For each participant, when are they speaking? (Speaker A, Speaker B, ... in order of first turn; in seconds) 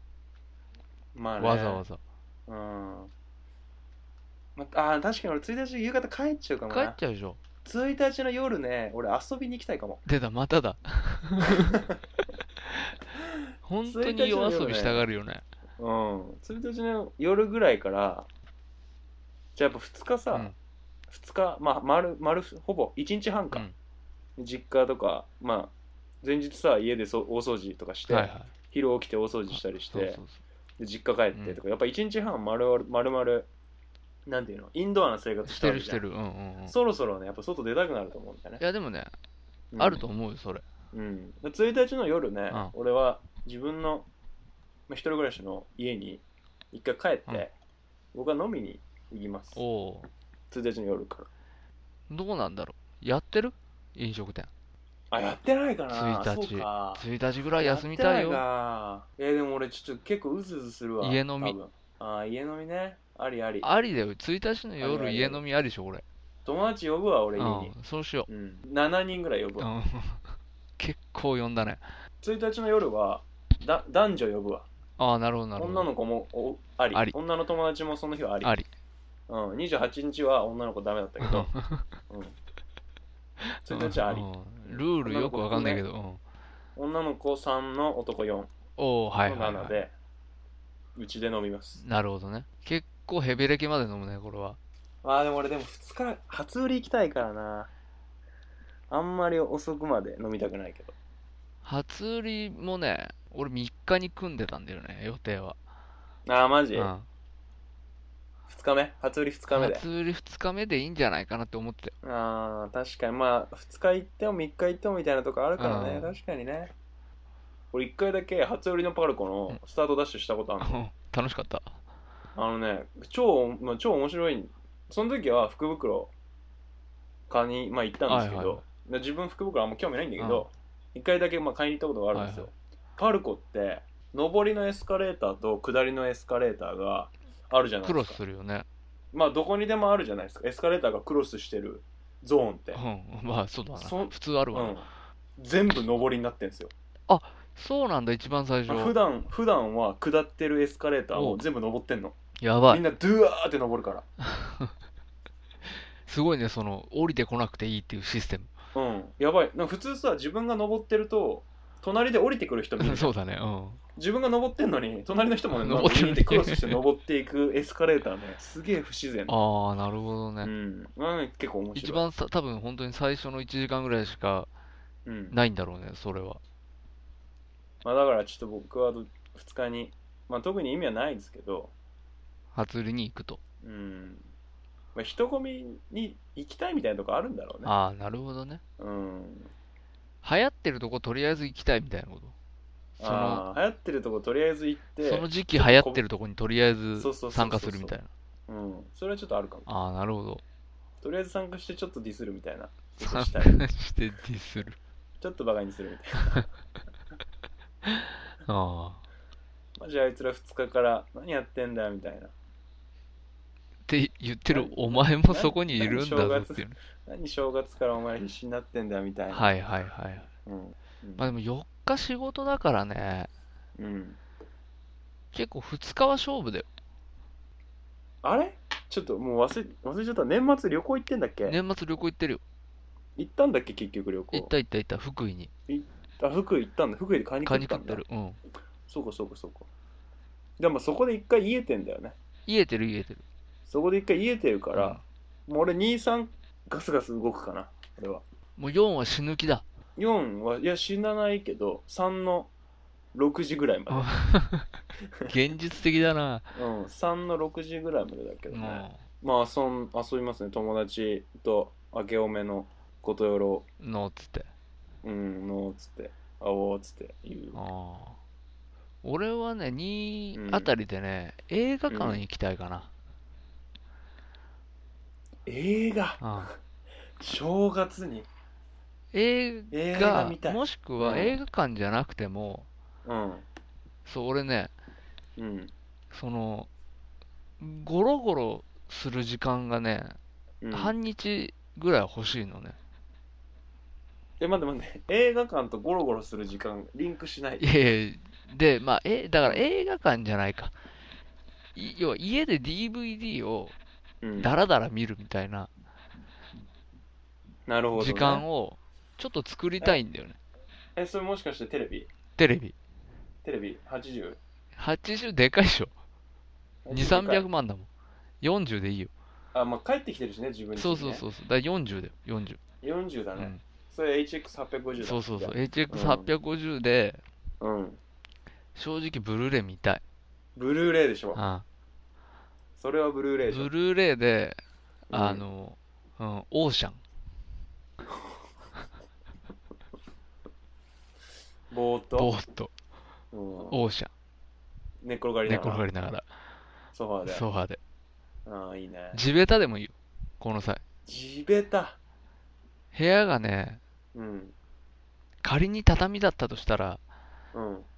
Speaker A: 1.1-1.8, 2.5-3.1, 4.6-7.0, 7.7-10.0, 11.4-12.0, 13.3-15.1, 15.8-18.3, 19.6-20.5, 21.1-23.7, 24.4-30.2, 30.8-33.5, 34.3-36.0, 36.7-38.6, 39.7-40.0, 40.9-44.1, 44.9-47.5, 48.1-49.6, 50.5-51.3, 55.1-57.1, 57.6-63.7, 64.8-65.4, 66.5-67.7, 68.3-69.7, 72.2-74.7, 75.6-78.5, 79.3-81.5, 82.1-82.4, 83.7-85.8, 86.8-88.5, 89.2-89.9, 91.0-91.8, 95.0-97.7, 98.9-101.0, 106.3-106.9, 108.5-109.8, 112.0-116.7, 117.7-120.8, 122.4-126.1, 127.3-138.2, 139.1-142.8, 143.8-146.7, 148.7-154.1, 158.7-163.1, 164.0-169.4, 170.4-172.1, 175.1-175.4, 177.8-181.7, 183.6-184.3, 184.9-187.7, 188.8-189.5, 193.0-196.0, 197.0-197.9, 198.5-199.7, 201.0-203.7, 205.2-206.5, 209.8-212.3, 214.5-219.6, 220.5-221.3, 223.8-224.2, 228.2-231.6, 233.2-234.5, 235.7-238.0, 238.9-239.7, 240.6-242.2, 243.7-248.2, 250.0-252.5, 253.1-254.1, 256.6-263.7, 265.0-267.6, 270.3-270.7, 271.9-272.2, 275.5-276.5, 277.2-278.3, 279.7-281.4, 283.1-283.4, 285.4-285.7, 290.6-290.9, 294.4-297.7, 304.2-304.5, 307.7-308.4, 311.0-312.1, 313.4-314.4, 316.9-317.5, 319.5-321.2, 322.8-326.3, 327.6-328.0, 330.6-331.4, 332.8-333.7, 335.1-335.4, 341.7-342.3, 343.3-343.8, 345.0-345.8, 346.9-347.4, 348.5-349.2, 351.1-352.0, 354.1-354.6, 357.5-357.9
Speaker B: 1.4-2.0, 6.7-7.4, 10.1-11.8, 13.7-15.4, 28.1-28.5, 29.5-30.4, 31.3-31.6, 35.5-36.8, 38.6-39.1, 39.8-40.6, 49.5-50.1, 52.1-54.5, 55.9-58.4, 61.0-61.6, 63.6-66.0, 67.4-68.3, 69.6-71.8, 75.0-75.9, 78.4-78.7, 81.2-81.9, 83.7-86.2, 88.8-89.8, 91.8-94.6, 101.6-105.6, 106.8-107.1, 109.5-112.0, 115.6-116.1, 120.6-121.8, 128.1-128.6, 130.2-130.5, 132.1-132.5, 137.8-138.7, 142.8-144.8, 147.1-148.9, 151.1-151.4, 152.4-152.8, 154.2-154.7, 156.1-158.5, 162.8-163.8, 165.6-166.8, 169.3-170.5, 171.8-174.5, 175.3-176.4, 182.5-183.4, 187.7-188.6, 190.2-192.3, 193.0-193.4, 195.0-198.1, 199.7-200.4, 203.0-204.8, 207.8-209.0, 213.9-216.8, 219.3-220.3, 221.2-223.3, 225.3-226.7, 231.5-232.4, 234.3-235.5, 237.4-238.4, 242.5-243.2, 244.8-245.0, 248.6-249.7, 253.9-254.7, 255.3-256.5, 258.5-259.0, 263.8-264.5, 267.6-268.2, 269.0-272.9, 276.2-276.5, 279.1-282.7, 284.1-284.7, 286.1-286.7, 287.6-290.2, 290.7-292.8, 297.6-300.7, 301.8-303.8, 304.4-305.7, 308.0-310.4, 312.4-312.8, 314.8-315.9, 316.9-317.9, 318.4-319.1, 320.8-322.6, 325.0-327.2, 328.8-330.0, 331.4-331.6, 333.5-334.6, 335.1-337.0, 342.2-342.7, 343.7-344.1, 345.5-346.3, 347.3-347.8, 349.1-350.8, 352.9-353.8, 355.4-357.0